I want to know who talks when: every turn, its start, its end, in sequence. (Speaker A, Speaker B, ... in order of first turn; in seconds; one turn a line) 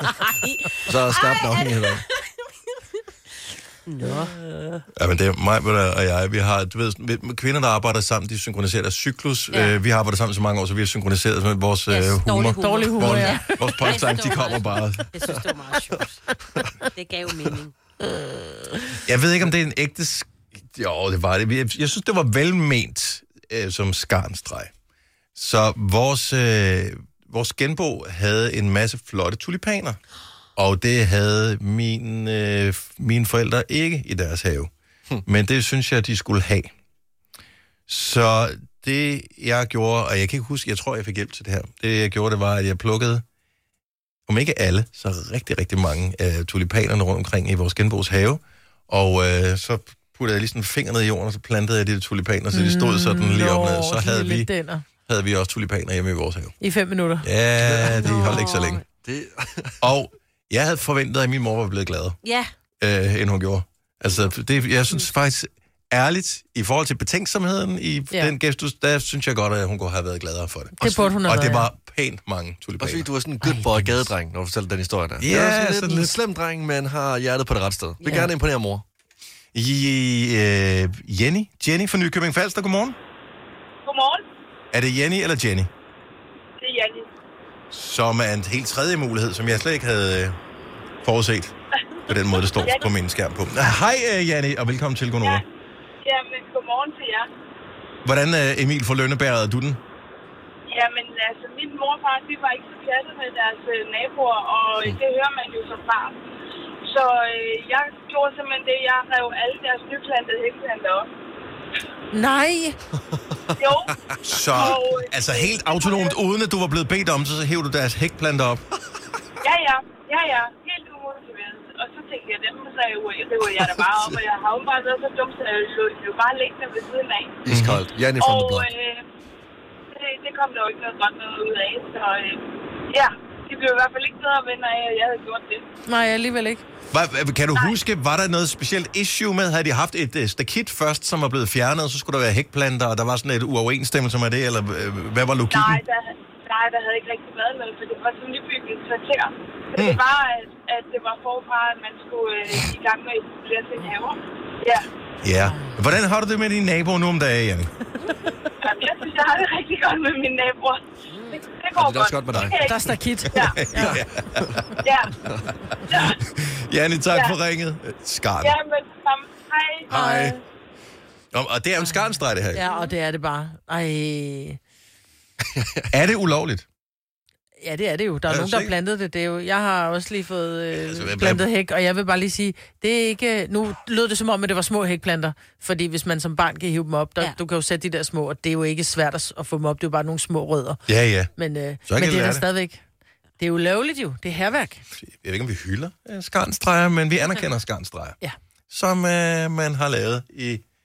Speaker A: 0.2-2.0
Speaker B: 0.8-2.0
Speaker A: 3.9-4.4
Speaker C: 5.0-15.1
Speaker A: 11.9-16.2
Speaker D: 12.6-13.4
Speaker A: 16.9-17.7
Speaker C: 19.1-24.7
Speaker C: 25.3-30.0
Speaker C: 30.6-34.7
Speaker C: 35.2-36.7
Speaker C: 37.9-43.2
Speaker C: 44.3-54.5
Speaker D: 52.5-54.8
Speaker C: 55.0-56.5
Speaker D: 56.6-57.3
Speaker C: 57.2-58.8
Speaker B: 57.6-58.4
Speaker A: 58.0-58.8
Speaker B: 59.0-59.8
Speaker C: 59.8-62.2
Speaker A: 62.2-62.5
Speaker C: 62.8-73.1
Speaker D: 70.8-71.7
Speaker B: 72.8-78.8
Speaker D: 73.4-73.7
Speaker C: 75.2-76.2
Speaker D: 78.0-78.3
Speaker C: 79.5-83.0
Speaker E: 83.8-84.2
Speaker C: 84.7-85.7
Speaker E: 86.6-87.1
Speaker C: 87.7-90.4
Speaker C: 91.0-91.5
Speaker C: 92.1-95.4
Speaker E: 92.5-92.9
Speaker E: 96.0-97.3
Speaker C: 98.0-99.8
Speaker E: 100.7-106.2
Speaker E: 106.8-111.1
Speaker D: 112.1-112.8
Speaker E: 113.5-116.2
Speaker C: 114.2-118.6
Speaker E: 119.4-127.4
Speaker B: 127.4-128.7
Speaker C: 127.5-127.8
Speaker E: 128.2-129.0
Speaker E: 129.9-135.7
Speaker D: 135.9-136.6
Speaker C: 136.9-145.8
Speaker E: 145.5-154.8
Speaker C: 149.8-150.0
Speaker C: 155.2-157.7
Speaker D: 155.4-155.8
Speaker E: 158.6-163.6
Speaker B: 161.7-162.6
Speaker D: 162.5-164.0
Speaker C: 163.3-164.8
Speaker E: 164.8-165.1
Speaker E: 165.9-166.2
Speaker C: 165.9-168.5
Speaker E: 167.1-167.3
Speaker E: 168.4-169.9
Speaker C: 169.9-170.4
Speaker D: 169.9-170.4
Speaker C: 171.3-172.6
Speaker D: 172.5-174.6
Speaker B: 175.5-175.9
Speaker C: 175.9-176.7
Speaker D: 177.6-190.8
Speaker C: 178.3-178.7
Speaker C: 180.9-181.4
Speaker C: 190.9-191.3
Speaker D: 191.3-192.8
Speaker C: 191.9-192.4
Speaker D: 193.4-194.8
Speaker C: 194.9-198.2
Speaker C: 198.7-200.6